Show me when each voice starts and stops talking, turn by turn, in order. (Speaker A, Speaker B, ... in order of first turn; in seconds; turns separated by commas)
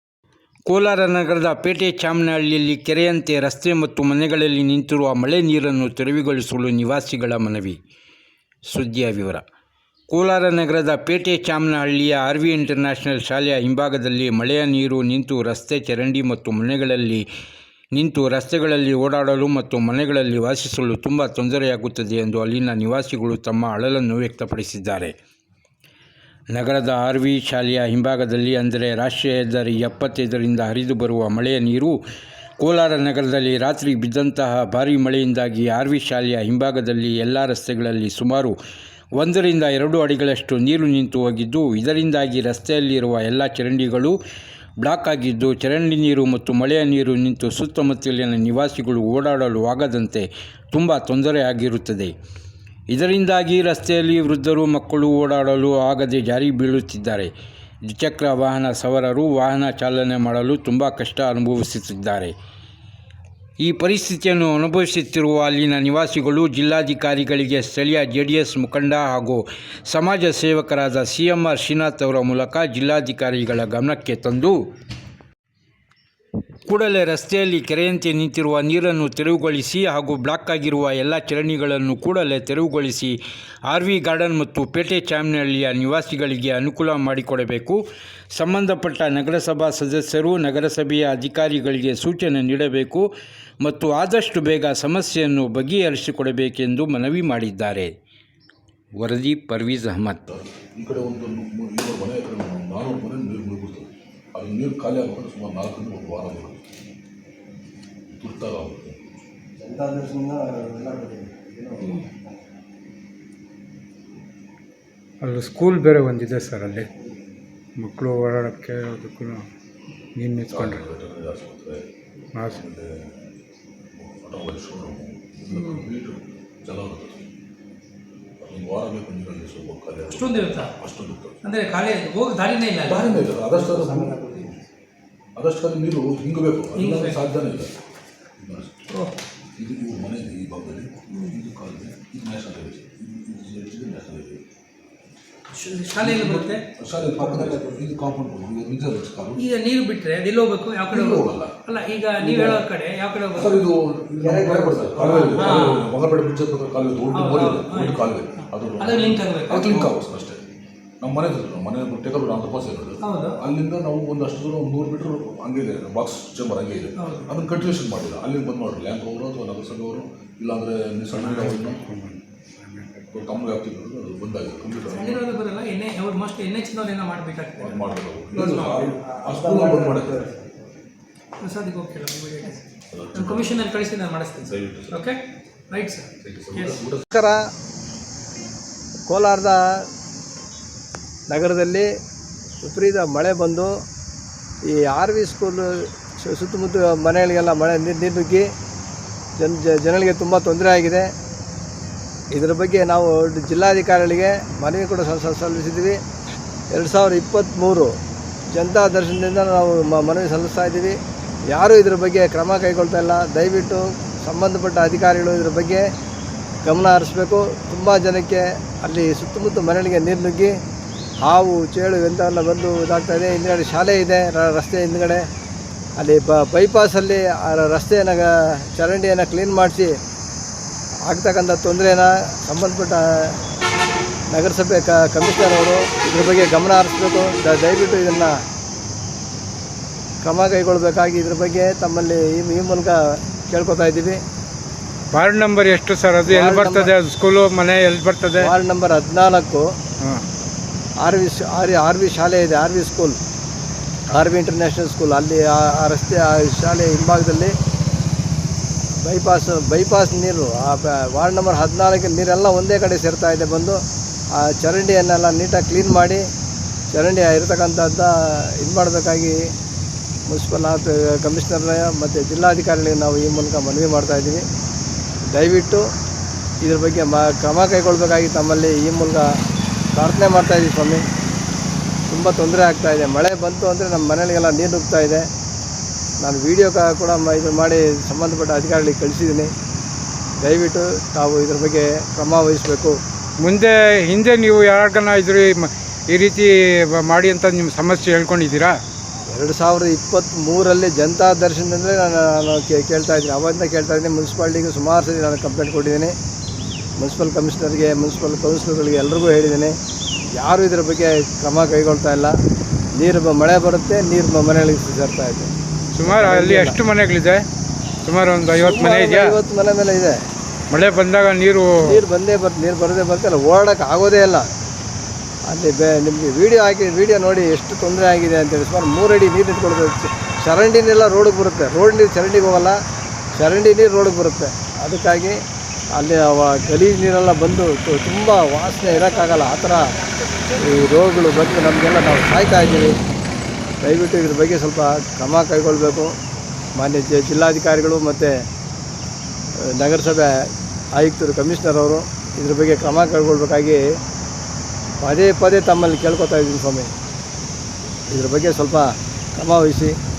Speaker A: 0.7-7.8, Speaker A: 8.7-9.4, Speaker A: 10.1-17.2, Speaker A: 17.9-25.1, Speaker A: 26.5-32.0, Speaker A: 32.6-38.5, Speaker A: 39.2-44.1, Speaker A: 44.8-52.1, Speaker A: 52.9-57.3, Speaker A: 57.9-62.3, Speaker A: 63.6-74.6, Speaker A: 76.7-87.8, Speaker A: 88.3-93.1, Speaker A: 93.6-97.9, Speaker A: 99.0-100.2, Speaker B: 100.2-106.7, Speaker B: 108.1-109.0, Speaker C: 109.6-112.1, Speaker D: 115.2-116.9, Speaker D: 117.8-119.5, Speaker D: 120.2-120.8, Speaker B: 120.5-121.8, Speaker D: 122.3-122.6, Speaker B: 122.5-123.2, Speaker B: 123.9-127.3, Speaker E: 125.5-125.8, Speaker B: 128.4-131.4, Speaker E: 130.1-130.7, Speaker E: 131.4-133.3, Speaker B: 132.8-134.5, Speaker C: 133.5-134.5, Speaker B: 135.3-137.7, Speaker E: 136.7-137.2, Speaker B: 138.4-138.7, Speaker E: 138.9-139.2, Speaker B: 139.6-144.4, Speaker E: 141.1-141.4, Speaker E: 145.5-146.6, Speaker B: 146.0-149.5, Speaker C: 147.1-147.8, Speaker E: 149.4-153.6, Speaker B: 150.9-151.6, Speaker C: 152.2-152.6, Speaker B: 152.3-152.6, Speaker B: 153.3-160.4, Speaker C: 154.2-155.4, Speaker E: 155.0-155.9, Speaker E: 157.1-158.0, Speaker E: 158.8-159.9, Speaker B: 161.0-171.8, Speaker E: 163.0-163.4, Speaker E: 167.0-167.4, Speaker D: 171.1-173.2, Speaker B: 173.1-175.3, Speaker E: 174.9-177.8, Speaker B: 177.6-180.3, Speaker E: 178.3-179.0, Speaker C: 179.0-180.4, Speaker E: 181.4-186.8, Speaker B: 182.9-183.6, Speaker B: 184.4-185.0, Speaker B: 186.2-187.0, Speaker C: 187.1-187.4, Speaker C: 189.1-189.6, Speaker C: 191.3-191.9, Speaker C: 192.6-193.7, Speaker C: 194.7-198.4, Speaker C: 199.4-201.1, Speaker C: 202.3-206.0, Speaker C: 206.7-207.9, Speaker C: 208.5-211.0, Speaker C: 211.5-215.8, Speaker C: 216.6-220.5, Speaker C: 221.2-225.2, Speaker C: 226.0-229.9, Speaker C: 231.1-233.4, Speaker C: 234.3-238.3, Speaker C: 240.2-244.2, Speaker D: 245.1-248.5, Speaker C: 246.3-246.9, Speaker C: 248.4-249.7, Speaker C: 251.0-253.2, Speaker C: 254.1-257.5, Speaker C: 259.0-263.8, Speaker C: 264.3-266.2, Speaker C: 266.9-269.4, Speaker C: 270.3-274.4, Speaker C: 275.3-275.9, Speaker C: 276.6-279.3, Speaker C: 279.9-281.0, Speaker C: 282.1-285.3, Speaker C: 286.2-289.5, Speaker C: 290.4-293.0, Speaker D: 293.4-298.8, Speaker C: 299.3-306.1, Speaker C: 307.0-309.7, Speaker C: 310.3-312.3, Speaker C: 312.9-315.5, Speaker D: 315.9-317.4, Speaker C: 316.0-316.8, Speaker D: 318.0-319.4, Speaker C: 318.5-320.2, Speaker D: 320.7-322.0, Speaker C: 321.8-324.5, Speaker C: 325.5-332.8, Speaker C: 333.4-335.4, Speaker C: 335.9-339.9, Speaker C: 340.6-342.9, Speaker C: 343.8-346.1, Speaker C: 346.8-348.3, Speaker C: 349.7-353.8, Speaker C: 355.0-356.9, Speaker C: 358.1-359.9